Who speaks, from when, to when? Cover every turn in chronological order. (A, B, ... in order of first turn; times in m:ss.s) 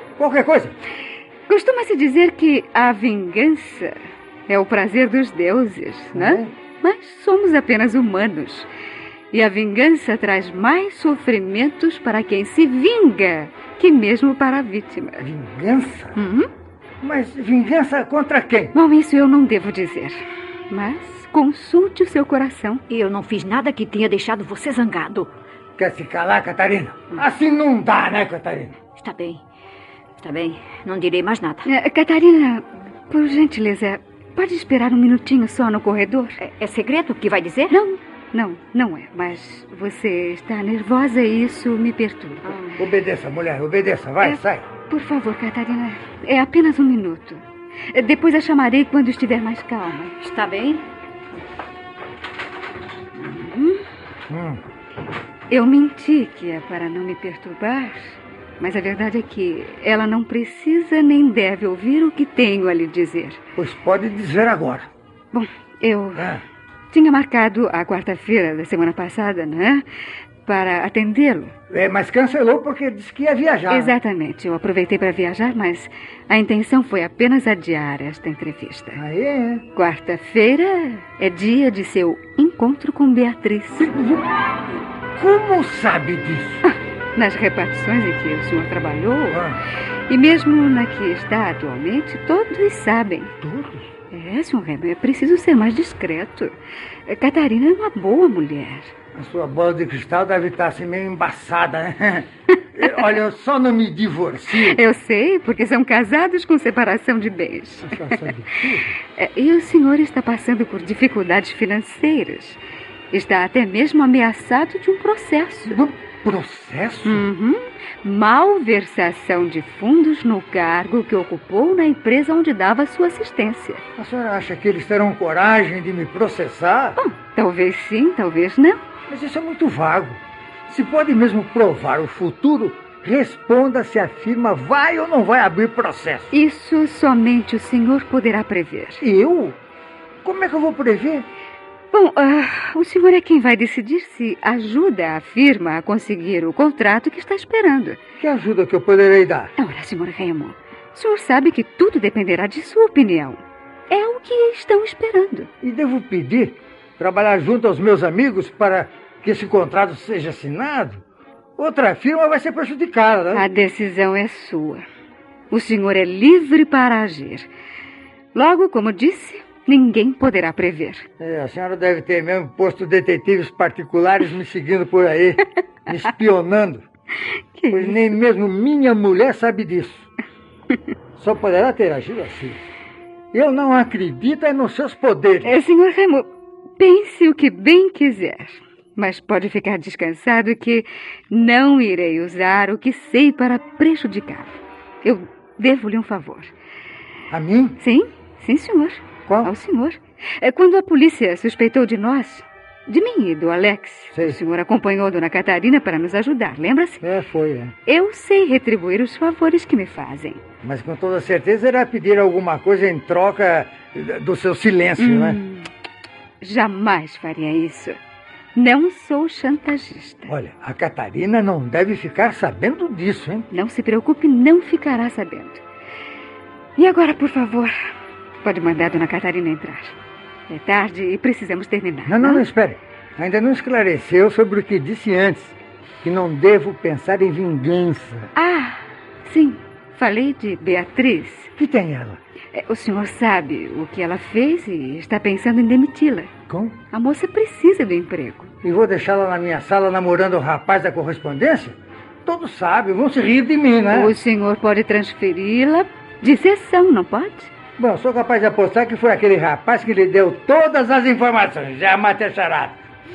0:00.2-0:00.8 A
0:01.5-0:03.9 B
0:04.5-0:08.7 B
0:06.2-0:06.5 A
0:09.3-0:15.2 B
0:15.2-0:16.2 A
0:16.2-0:16.5 C
0:17.0-0:18.7 A
0:18.7-0:22.8 B
0:22.9-0:25.3 C
0:25.8-0:28.8 A
0:29.0-0:29.4 C
0:30.2-0:31.7 C
0:31.6-0:36.4 B
0:36.4-0:37.7 C
0:37.7-0:42.6 B
0:42.4-0:42.8 C
0:42.8-0:44.7 A
0:44.2-0:47.4 B
0:47.9-0:50.2 B
0:50.2-0:50.8 C
0:53.2-0:53.8 B
0:54.3-0:54.6 A
0:55.5-1:03.4 B
1:03.6-1:04.9 A
1:05.3-1:06.3 B
1:06.2-1:06.4 A
1:06.9-1:09.8 B
1:10.4-1:11.5 B
1:11.7-1:14.0 A
1:13.7-1:19.0 B
1:19.0-1:19.6 A
1:19.7-1:23.9 B
1:23.8-1:24.3 A
1:25.2-1:26.6 A
1:26.6-1:29.4 B
1:29.3-1:29.6 A
1:30.1-1:33.3 B
1:33.4-1:33.9 A
1:34.1-1:36.5 B
1:37.1-1:38.9 B
1:39.2-1:44.8 A
1:44.6-1:48.0 B
1:47.9-1:49.0 A
1:49.2-1:52.6 B
1:53.1-1:55.8 B
1:55.7-1:57.3 A
1:57.0-2:03.8 B
2:04.0-2:07.0 A
2:07.0-2:08.8 B
2:09.1-2:16.3 A
2:16.3-2:19.0 B
2:19.0-2:19.6 A
2:20.2-2:21.3 A
2:21.9-2:28.0 B
2:28.2-2:29.5 A
2:29.6-2:35.5 B
2:35.6-2:41.0 A
2:41.6-2:43.4 A
2:43.3-2:44.8 B
2:45.5-2:47.5 B
2:48.3-2:51.0 B
2:51.2-2:56.8 A
2:57.6-2:58.0 B
2:57.7-3:00.1 A
3:01.2-3:02.6 A
3:03.3-3:05.5 A
3:05.4-3:16.5 B
3:17.3-3:17.8 A
3:17.8-3:27.0 B
3:19.3-3:19.5 A
3:27.0-3:27.7 A
3:27.9-3:30.4 B
3:30.6-3:35.4 A
3:35.0-3:35.7 B
3:36.4-3:38.0 B
3:38.6-3:40.3 B
3:40.3-3:43.5 A
3:43.5-3:45.6 B
3:46.8-3:47.7 B
3:48.4-3:50.0 B
3:50.5-3:52.4 B
3:52.1-3:58.3 A
3:58.4-4:01.5 B
4:01.6-4:02.2 A
4:02.5-4:06.3 B
4:06.5-4:06.8 A
4:06.9-4:08.5 B
4:08.6-4:14.2 A
4:13.9-4:17.5 B
4:17.8-4:22.8 A